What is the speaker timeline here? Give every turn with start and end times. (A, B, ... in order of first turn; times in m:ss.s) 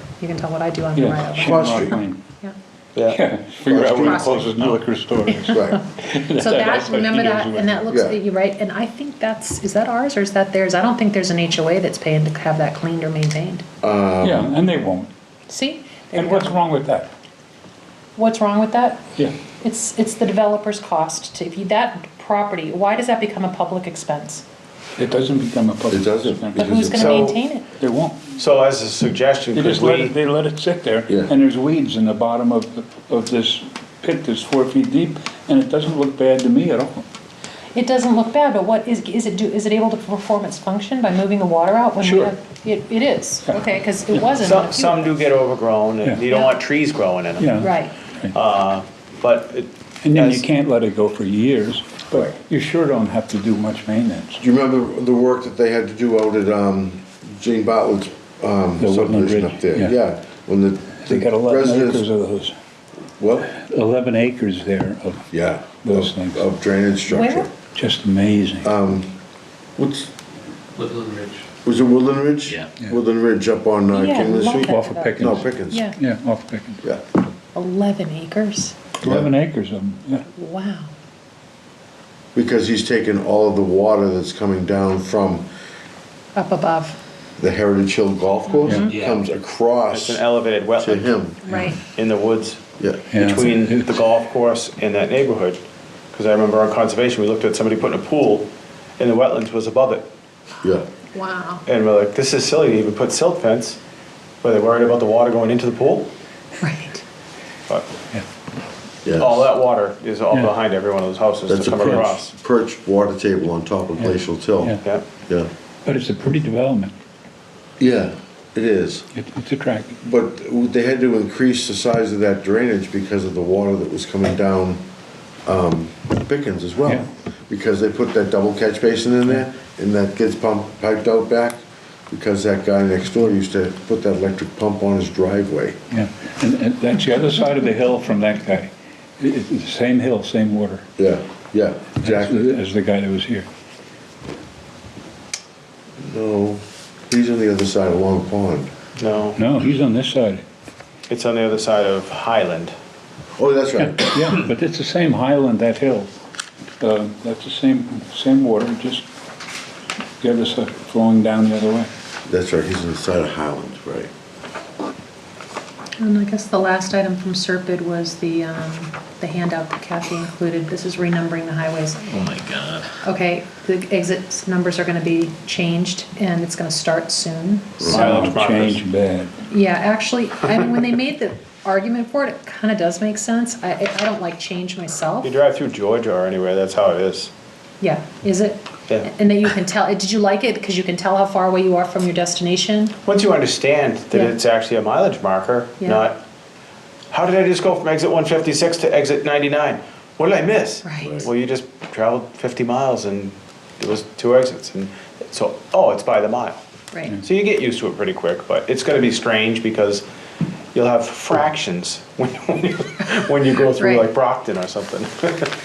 0:00.2-0:02.5 A
0:01.0-0:02.2 B
0:01.4-0:02.0 C
0:03.0-0:07.9 B
0:03.6-0:04.4 C
0:04.0-0:05.7 A
0:05.5-0:05.8 C
0:06.3-0:13.6 A
0:07.9-0:08.2 C
0:13.8-0:14.5 C
0:14.2-0:15.1 B
0:15.5-0:16.6 A
0:16.1-0:17.1 B
0:18.2-0:19.1 A
0:19.6-0:24.4 A
0:25.0-0:27.2 B
0:25.9-0:27.2 C
0:26.5-0:27.6 A
0:26.9-0:27.4 D
0:27.8-0:28.3 B
0:28.4-0:30.1 D
0:29.5-0:37.0 B
0:37.7-0:45.2 A
0:42.0-0:42.3 B
0:43.5-0:44.3 B
0:44.4-0:47.6 D
0:47.4-0:48.3 B
0:47.6-0:47.9 A
0:48.3-0:50.4 D
0:50.0-0:54.4 B
0:54.4-1:02.0 C
0:58.8-0:59.9 B
1:01.0-1:02.6 B
1:03.2-1:03.5 C
1:03.4-1:05.3 B
1:05.3-1:07.5 C
1:05.8-1:06.4 B
1:07.1-1:07.5 A
1:07.7-1:08.7 B
1:08.6-1:09.1 C
1:09.8-1:10.1 C
1:10.8-1:11.4 E
1:11.6-1:15.9 C
1:13.9-1:16.0 A
1:14.6-1:15.4 B
1:16.0-1:16.8 B
1:17.5-1:18.8 A
1:19.0-1:19.3 C
1:19.0-1:20.2 B
1:20.3-1:20.9 A
1:22.3-1:25.5 C
1:26.3-1:27.0 A
1:27.4-1:30.2 C
1:28.5-1:28.9 A
1:28.8-1:29.2 E
1:29.9-1:31.2 D
1:30.8-1:31.4 C
1:31.4-1:31.8 A
1:31.8-1:32.6 D
1:32.8-1:33.1 C
1:33.1-1:34.0 B
1:33.2-1:40.1 D
1:41.1-1:41.6 A
1:41.6-1:43.8 D
1:44.4-1:46.1 D
1:46.6-1:47.0 A
1:49.0-1:49.5 C
1:49.2-1:52.3 D
1:51.5-1:55.5 C
1:54.0-1:54.8 B
1:55.8-1:56.9 B
1:57.8-1:59.1 C
1:59.1-2:00.0 B
2:00.0-2:04.8 C
2:05.4-2:15.8 C
2:15.9-2:20.9 B
2:21.0-2:22.5 C
2:22.0-2:23.5 B
2:26.0-2:28.7 C
2:29.0-2:29.4 D
2:29.3-2:30.4 B
2:31.1-2:32.7 D
2:33.4-2:34.2 C
2:34.0-2:36.1 B
2:36.8-2:39.0 B
2:40.2-2:41.9 B
2:42.3-2:44.1 C
2:46.0-2:52.1 A
2:52.0-2:52.9 E
2:53.0-2:58.3 A
2:57.8-2:58.8 D
2:57.9-2:59.4 B
2:59.5-3:05.3 A
3:05.2-3:07.3 D
3:07.8-3:13.0 A
3:13.0-3:16.2 D
3:17.1-3:26.6 D
3:20.8-3:21.2 A
3:21.0-3:21.3 C
3:27.2-3:30.0 D
3:30.7-3:35.5 D
3:33.8-3:34.1 A